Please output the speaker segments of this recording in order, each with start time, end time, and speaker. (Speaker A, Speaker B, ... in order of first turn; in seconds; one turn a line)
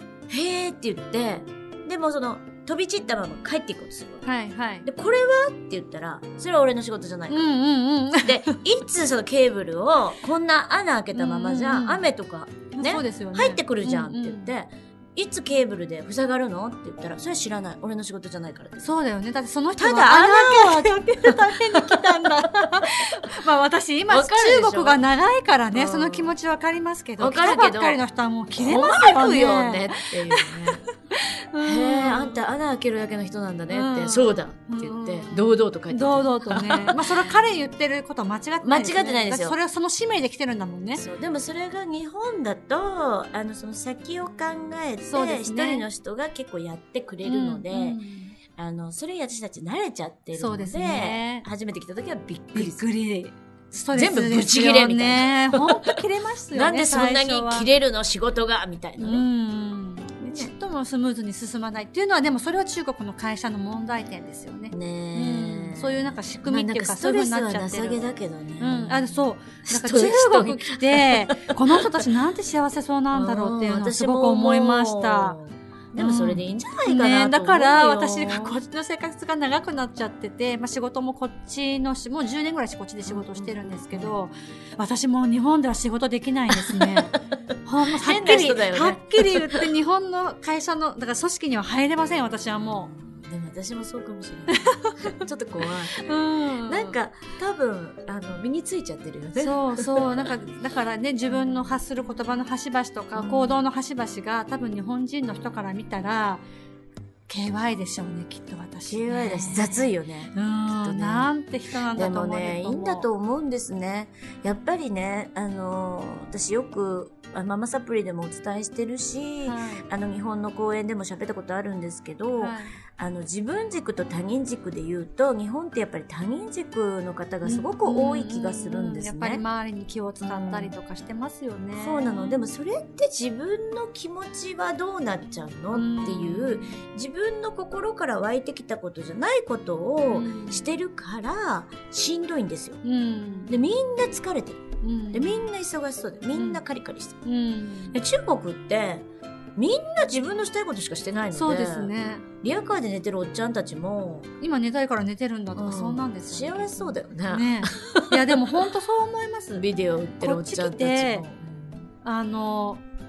Speaker A: 0.3-4.2
Speaker B: 4.2-4.8
Speaker A: 4.8-7.5
Speaker B: 7.3-8.6
Speaker A: 8.2-18.9
Speaker B: 11.1-12.0
Speaker B: 12.7-14.5
Speaker B: 18.8-32.4
Speaker A: 19.8-23.2
Speaker A: 24.1-25.0
Speaker A: 25.7-26.3
Speaker A: 27.2-28.0
Speaker A: 28.6-30.8
Speaker A: 31.6-37.3
Speaker B: 33.7-41.0
Speaker A: 38.6-39.6
Speaker A: 40.9-48.0
Speaker B: 45.1-45.8
Speaker B: 47.2-48.4
Speaker A: 48.5-52.9
Speaker B: 50.3-51.5
Speaker B: 52.5-57.7
Speaker A: 53.9-56.0
Speaker A: 56.5-59.2
Speaker B: 59.0-68.0
Speaker A: 60.2-60.5
Speaker A: 64.7-71.8
Speaker B: 68.6-75.4
Speaker A: 73.1-78.6
Speaker B: 76.0-87.1
Speaker A: 83.0-84.2
Speaker A: 86.5-87.2
Speaker B: 87.6-92.9
Speaker A: 87.9-89.7
Speaker A: 92.5-96.0
Speaker B: 94.5-95.2
Speaker B: 95.9-97.0
Speaker A: 96.6-100.3
Speaker B: 99.3-106.4
Speaker A: 103.1-103.6
Speaker B: 107.3-113.1
Speaker A: 108.9-111.3
Speaker A: 111.9-129.4
Speaker B: 119.5-119.8
Speaker B: 122.4-122.8
Speaker B: 127.4-132.5
Speaker A: 130.2-130.8
Speaker A: 131.8-142.8
Speaker B: 135.7-136.8
Speaker B: 140.1-140.6
Speaker B: 142.8-143.6
Speaker A: 143.5-147.2
Speaker B: 144.8-145.5
Speaker B: 146.3-146.6
Speaker B: 147.2-148.0
Speaker A: 147.9-149.1
Speaker A: 149.6-151.9
Speaker B: 151.3-152.2
Speaker A: 152.4-154.3
Speaker B: 154.4-159.6
Speaker A: 155.6-158.4
Speaker A: 159.6-161.9
Speaker B: 160.2-161.2
Speaker B: 162.0-162.8